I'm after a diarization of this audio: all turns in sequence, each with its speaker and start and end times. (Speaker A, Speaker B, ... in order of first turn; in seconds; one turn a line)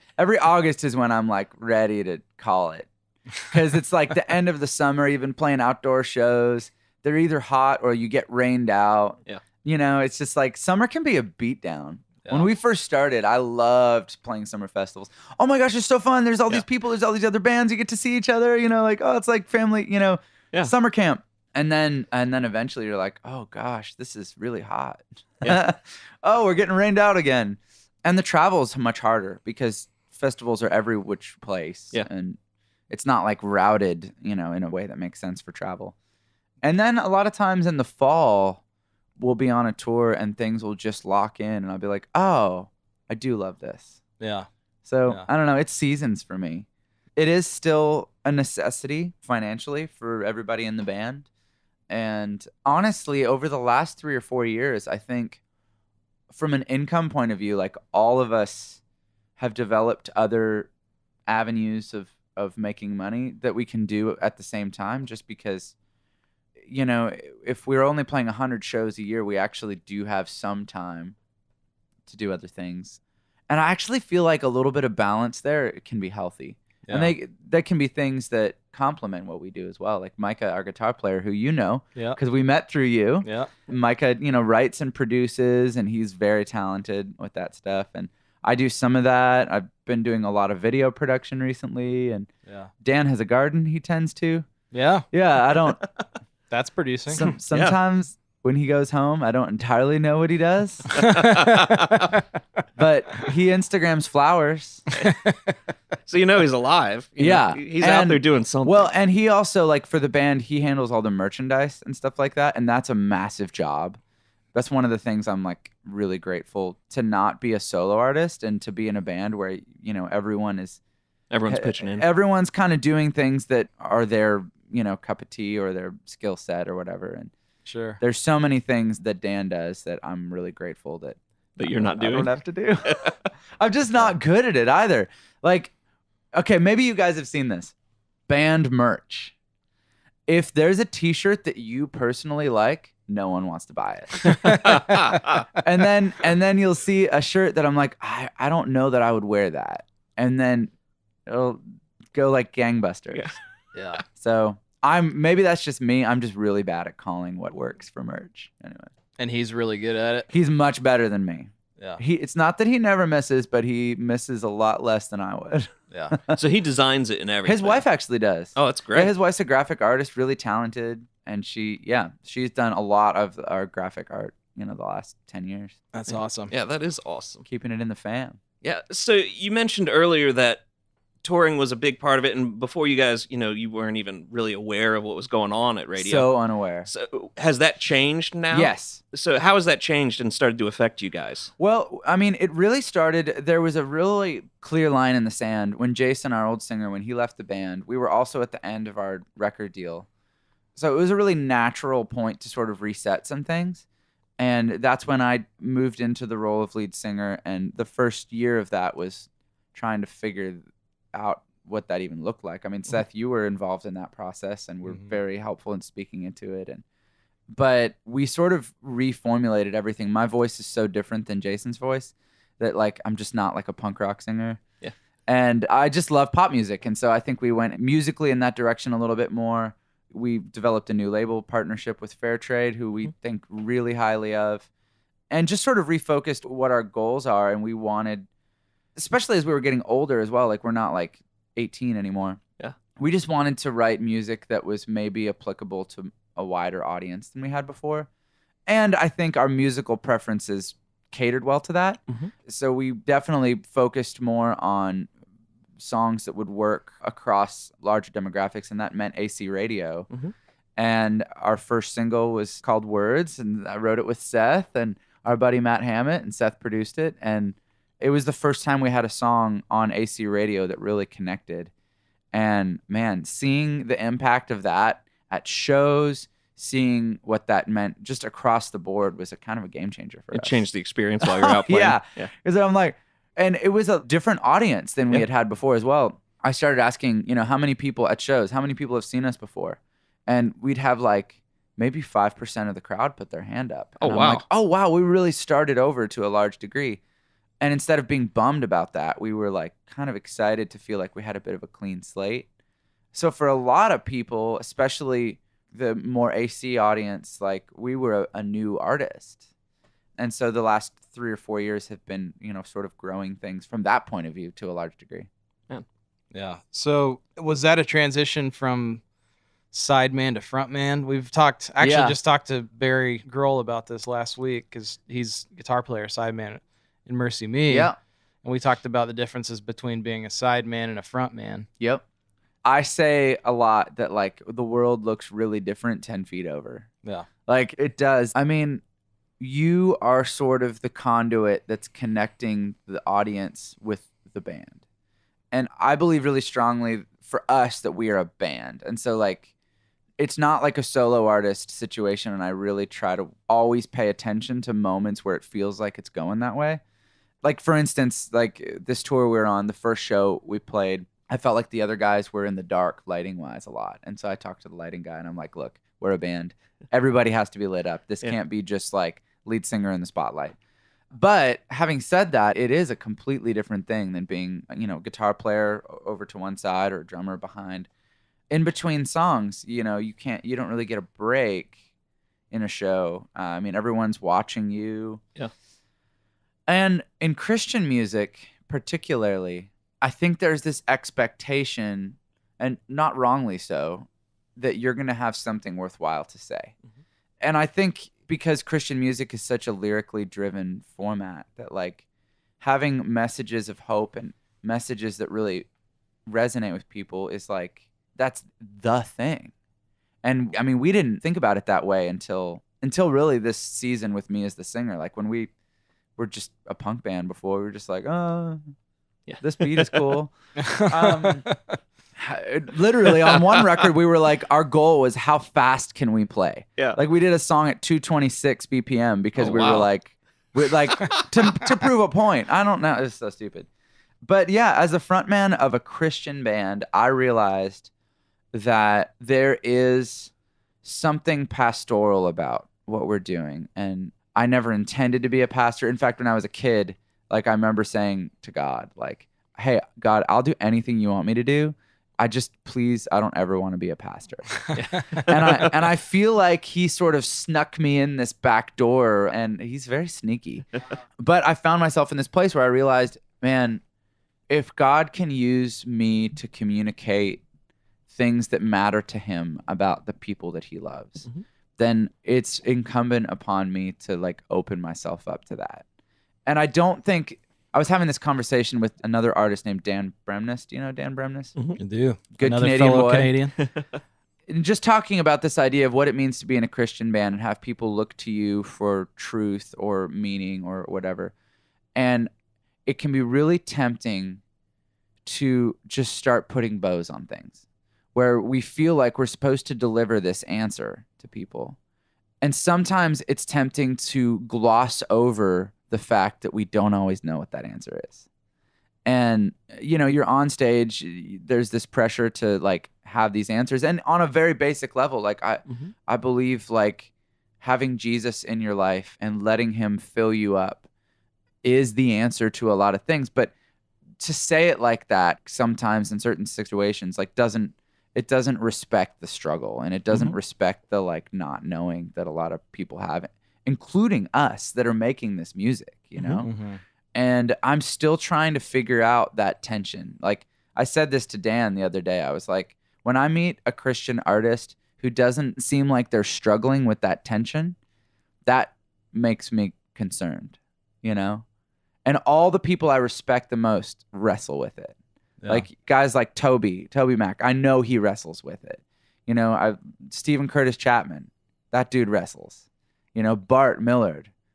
Speaker A: 0.2-2.9
Speaker A: 3.4-32.4
Speaker B: 12.2-12.5
Speaker A: 32.9-35.9
Speaker A: 36.6-38.6
Speaker A: 39.2-44.0
Speaker B: 44.2-44.5
Speaker A: 44.8-51.2
Speaker A: 51.9-55.4
Speaker A: 56.3-58.8
Speaker A: 59.4-60.7
Speaker A: 61.3-65.7
Speaker A: 66.6-71.2
Speaker A: 72.1-92.3
Speaker B: 76.8-77.1
Speaker B: 83.2-83.5
Speaker A: 92.8-94.5
Speaker B: 94.7-95.1
Speaker A: 95.1-95.8
Speaker B: 96.5-97.2
Speaker A: 97.1-101.0
Speaker C: 97.2-97.8
Speaker C: 100.9-102.2
Speaker B: 101.0-102.2
Speaker A: 102.8-104.8
Speaker B: 105.0-105.5
Speaker C: 106.0-108.9
Speaker A: 107.2-114.0
Speaker A: 114.5-120.8
Speaker C: 121.3-122.0
Speaker A: 121.5-127.3
Speaker B: 127.7-128.0
Speaker A: 128.0-135.7
Speaker C: 131.6-132.3
Speaker C: 132.8-133.2
Speaker A: 136.3-137.7
Speaker A: 138.3-139.3
Speaker A: 140.3-150.7
Speaker B: 144.3-144.8
Speaker C: 144.4-145.5
Speaker A: 151.3-153.3
Speaker B: 153.7-154.0
Speaker A: 154.2-158.9
Speaker B: 159.2-160.3
Speaker A: 160.3-166.4
Speaker C: 166.3-167.8
Speaker A: 167.4-176.1
Speaker C: 168.6-169.1
Speaker B: 175.9-176.5
Speaker C: 176.5-177.4
Speaker A: 177.5-178.4
Speaker C: 178.6-180.6
Speaker C: 181.2-186.3
Speaker A: 186.0-186.9
Speaker C: 186.9-191.5
Speaker A: 188.5-189.0
Speaker A: 191.6-200.1
Speaker A: 200.8-203.8
Speaker A: 204.4-216.8
Speaker A: 217.5-224.6
Speaker A: 225.3-234.7
Speaker A: 235.3-238.3
Speaker A: 238.9-242.4
Speaker A: 243.0-248.1
Speaker A: 248.7-255.1
Speaker A: 255.8-260.1
Speaker A: 260.8-271.7
Speaker A: 272.3-280.6
Speaker C: 280.3-282.3
Speaker A: 281.2-297.0
Speaker C: 294.0-294.4
Speaker A: 297.6-302.5
Speaker A: 303.1-309.4
Speaker A: 310.2-315.3
Speaker B: 316.3-319.0
Speaker B: 319.7-327.9
Speaker A: 321.8-322.2
Speaker A: 327.7-327.9
Speaker B: 328.4-331.7
Speaker A: 332.6-336.9
Speaker A: 337.5-338.8
Speaker A: 339.4-344.8
Speaker A: 345.5-349.5
Speaker A: 350.2-356.8
Speaker A: 357.4-370.6
Speaker A: 371.1-377.9
Speaker A: 378.5-381.8
Speaker A: 382.5-385.2
Speaker A: 386.7-396.7
Speaker A: 397.4-402.0
Speaker A: 402.6-405.7
Speaker A: 406.3-409.5
Speaker A: 410.2-415.5
Speaker A: 416.2-418.6
Speaker C: 419.3-420.2
Speaker A: 419.4-421.5
Speaker B: 420.6-421.8
Speaker A: 422.1-433.7
Speaker C: 429.4-429.9
Speaker C: 430.9-431.6
Speaker A: 434.2-437.9
Speaker A: 438.5-440.3
Speaker A: 440.8-463.8
Speaker C: 454.8-455.7
Speaker A: 464.5-467.4
Speaker A: 468.1-471.2
Speaker A: 471.8-475.8
Speaker A: 476.4-481.5
Speaker B: 481.8-483.5
Speaker A: 482.4-483.3
Speaker C: 483.6-483.8
Speaker A: 484.5-491.3
Speaker A: 491.9-492.3
Speaker A: 492.9-494.4
Speaker A: 495.2-497.6
Speaker A: 498.1-501.8
Speaker A: 502.4-508.2
Speaker A: 509.0-517.1
Speaker C: 515.7-515.9
Speaker A: 517.6-520.8
Speaker A: 521.6-523.5
Speaker A: 524.2-536.5
Speaker B: 536.2-536.8
Speaker A: 537.1-547.8
Speaker A: 548.5-551.4
Speaker A: 552.0-555.0
Speaker A: 555.5-564.3